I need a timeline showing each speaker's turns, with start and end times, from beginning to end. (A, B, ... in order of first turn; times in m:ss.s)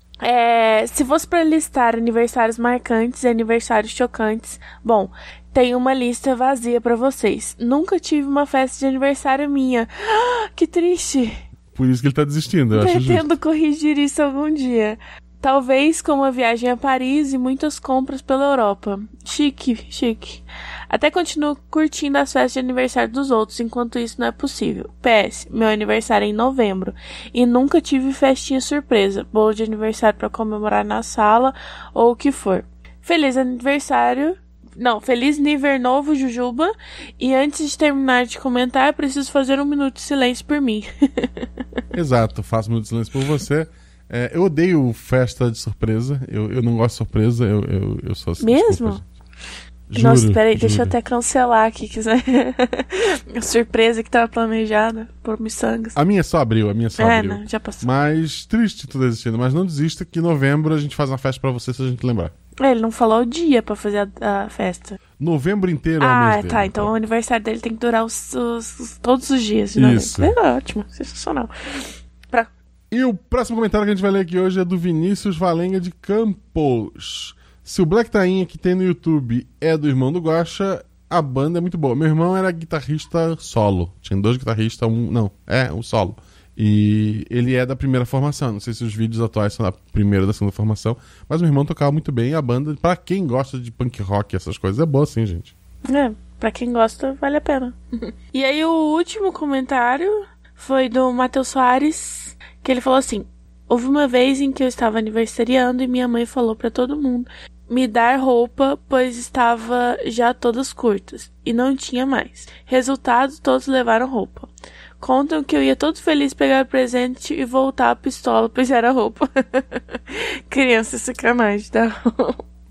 0:00.2-0:11.4 A
0:11.7-0:13.3 B
0:12.7-0:41.8 A
0:41.9-0:49.0 B
0:48.4-0:49.0 A
0:49.9-0:50.9 B
0:50.0-0:56.0 A
0:56.0-1:02.3 B
0:57.0-0:57.9 A
1:02.6-1:05.0 A
1:05.2-1:06.9 B
1:06.0-1:12.5 A
1:09.8-1:10.4 B
1:12.9-1:35.5 B
1:35.9-1:37.8 A
1:38.3-1:54.5 A
1:55.0-2:02.4 A